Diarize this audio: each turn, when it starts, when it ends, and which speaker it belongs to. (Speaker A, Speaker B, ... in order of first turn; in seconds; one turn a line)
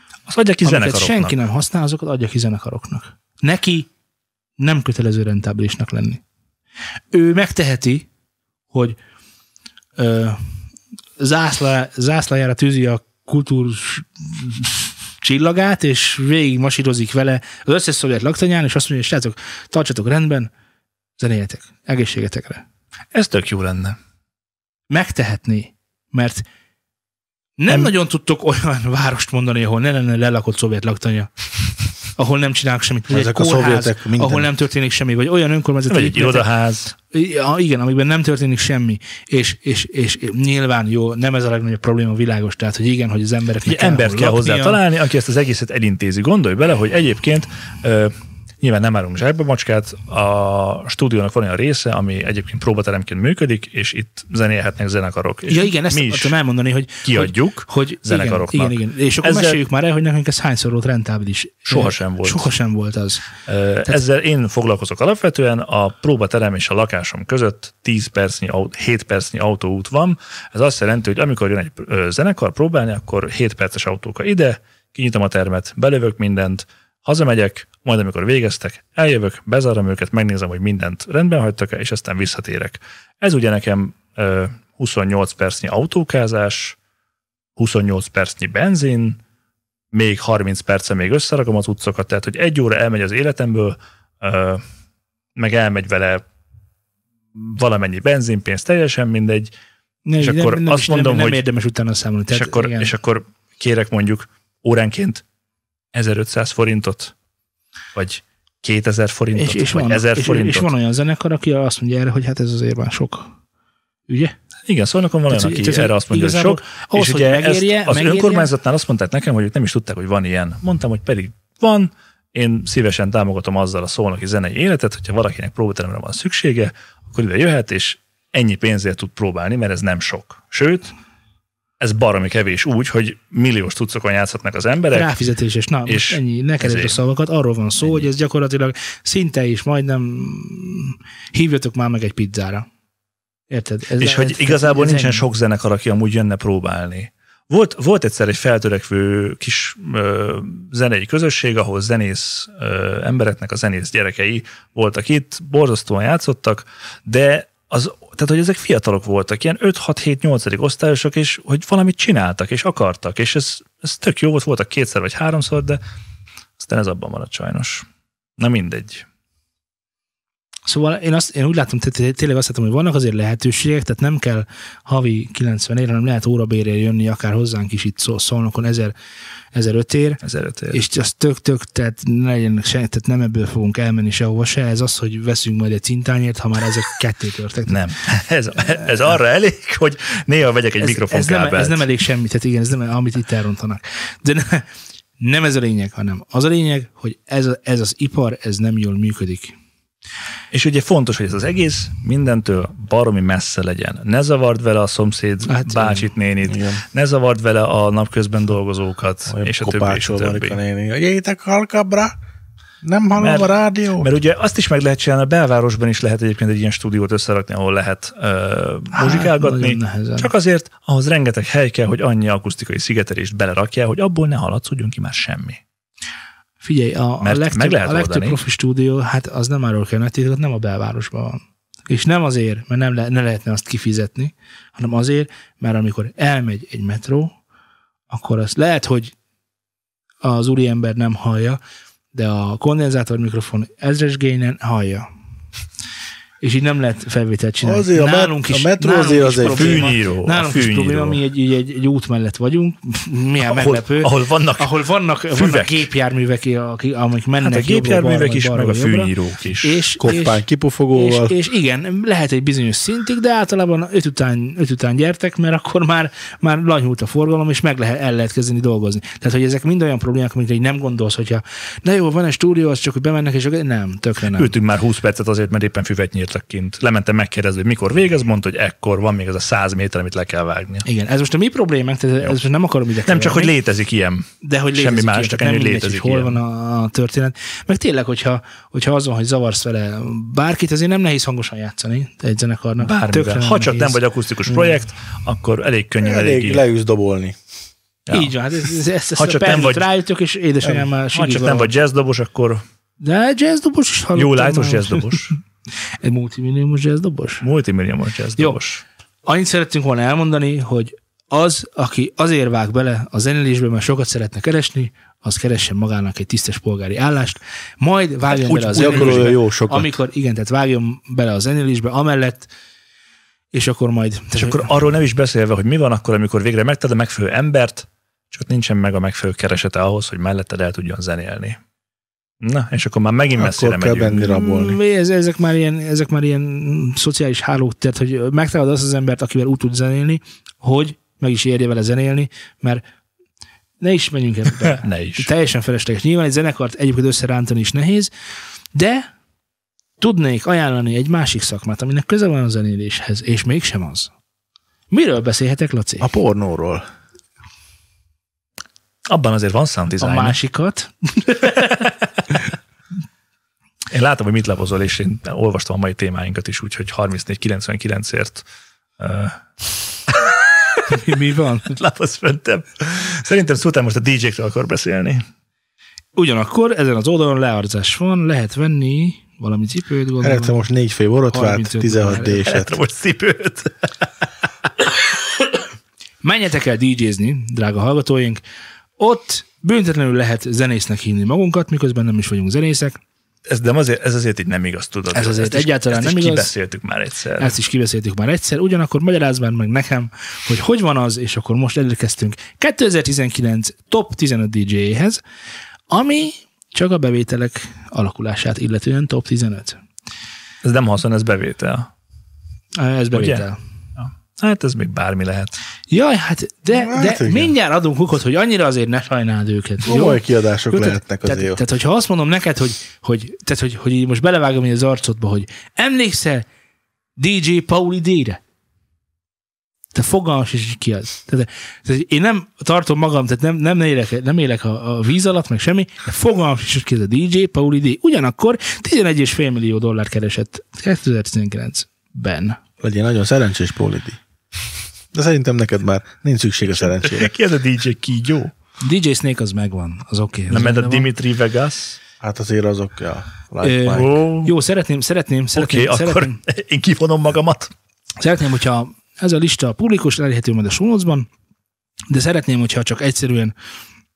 Speaker A: 0.3-1.3
Speaker B: 0.6-3.9
Speaker B: 4.6-6.2
Speaker B: 7.1-8.1
Speaker B: 8.7-9.0
Speaker B: 10.0-10.4
Speaker B: 11.2-20.5
Speaker B: 21.2-22.6
Speaker A: 23.1-24.0
Speaker B: 24.9-26.4
Speaker B: 27.6-31.3
Speaker B: 32.2-36.5
Speaker C: 33.1-34.5
Speaker A: 35.9-36.9
Speaker B: 37.1-44.8
Speaker A: 43.6-56.4
Speaker B: 55.5-63.2
Speaker A: 57.0-59.6
Speaker A: 61.7-62.5
Speaker A: 63.5-86.8
Speaker A: 87.6-89.2
Speaker A: 89.9-94.6
Speaker A: 95.3-96.2
Speaker A: 97.3-99.5
Speaker B: 100.0-102.9
Speaker A: 100.2-101.4
Speaker A: 102.3-105.2
Speaker A: 105.9-107.1
Speaker A: 107.9-110.7
Speaker B: 109.3-113.3
Speaker B: 114.1-114.3
Speaker A: 114.7-130.9
Speaker B: 115.3-118.5
Speaker A: 131.8-135.1
Speaker B: 134.9-142.7
Speaker A: 135.9-137.0
Speaker A: 137.8-138.1
Speaker B: 143.5-145.2
Speaker A: 144.0-165.8
Speaker A: 166.6-167.8
Speaker A: 168.4-169.0
Speaker B: 170.7-178.9
Speaker B: 179.5-187.8
Speaker A: 180.2-180.8
Speaker A: 187.7-191.8
Speaker B: 190.8-194.7
Speaker B: 195.2-199.5
Speaker A: 200.5-210.6
Speaker B: 205.5-206.1
Speaker C: 206.5-206.8
Speaker C: 209.3-212.2
Speaker C: 212.8-214.1
Speaker A: 213.2-225.6
Speaker B: 218.9-220.3
Speaker B: 226.6-237.3
Speaker A: 227.2-228.4
Speaker B: 238.1-239.1
Speaker B: 240.2-241.6
Speaker B: 242.1-245.1
Speaker B: 246.4-259.1
Speaker C: 247.6-249.9
Speaker A: 249.4-251.2
Speaker A: 253.4-254.7
Speaker A: 255.3-255.8
Speaker A: 257.4-259.8
Speaker B: 259.6-274.5
Speaker C: 260.0-261.3
Speaker A: 274.3-280.9
Speaker B: 280.8-283.5
Speaker A: 283.1-286.4
Speaker B: 284.4-294.0
Speaker A: 292.8-296.6
Speaker C: 296.0-297.4
Speaker A: 298.1-298.3
Speaker B: 298.1-301.7
Speaker A: 299.2-299.9
Speaker A: 301.1-302.6
Speaker B: 303.0-305.2
Speaker A: 304.1-305.4
Speaker B: 306.0-307.4
Speaker A: 307.4-308.8
Speaker B: 309.2-322.5
Speaker A: 318.4-319.3
Speaker C: 318.7-319.9
Speaker B: 323.5-324.7
Speaker A: 324.4-331.6
Speaker A: 332.4-334.3
Speaker C: 333.3-334.8
Speaker B: 334.2-342.8
Speaker B: 343.8-348.1
Speaker A: 344.7-345.3
Speaker B: 348.7-349.1
Speaker B: 350.0-354.1
Speaker B: 354.9-356.1
Speaker C: 356.0-356.8
Speaker A: 359.1-360.4
Speaker B: 360.0-361.8
Speaker A: 361.6-361.9
Speaker A: 363.9-368.4
Speaker A: 369.0-369.4
Speaker A: 370.1-370.9
Speaker B: 370.9-371.7
Speaker A: 371.6-375.2
Speaker B: 376.1-380.6
Speaker C: 380.2-382.8
Speaker B: 381.3-382.5
Speaker A: 382.4-384.1
Speaker B: 386.2-388.4
Speaker B: 389.0-393.0
Speaker A: 393.5-397.5
Speaker B: 395.1-396.5
Speaker B: 397.4-405.2
Speaker B: 405.9-409.8
Speaker A: 410.6-411.9
Speaker B: 412.8-413.6
Speaker A: 413.1-415.6
Speaker B: 415.9-426.4
Speaker C: 416.7-417.5
Speaker C: 419.8-421.6
Speaker B: 427.2-428.4
Speaker B: 429.9-442.6
Speaker C: 442.8-444.2
Speaker C: 445.1-447.3
Speaker A: 446.7-448.5
Speaker B: 448.8-451.1
Speaker A: 450.5-452.0
Speaker C: 452.2-454.1
Speaker B: 453.6-456.4
Speaker A: 453.9-454.5
Speaker A: 455.5-457.7
Speaker B: 458.2-461.3
Speaker B: 462.1-463.5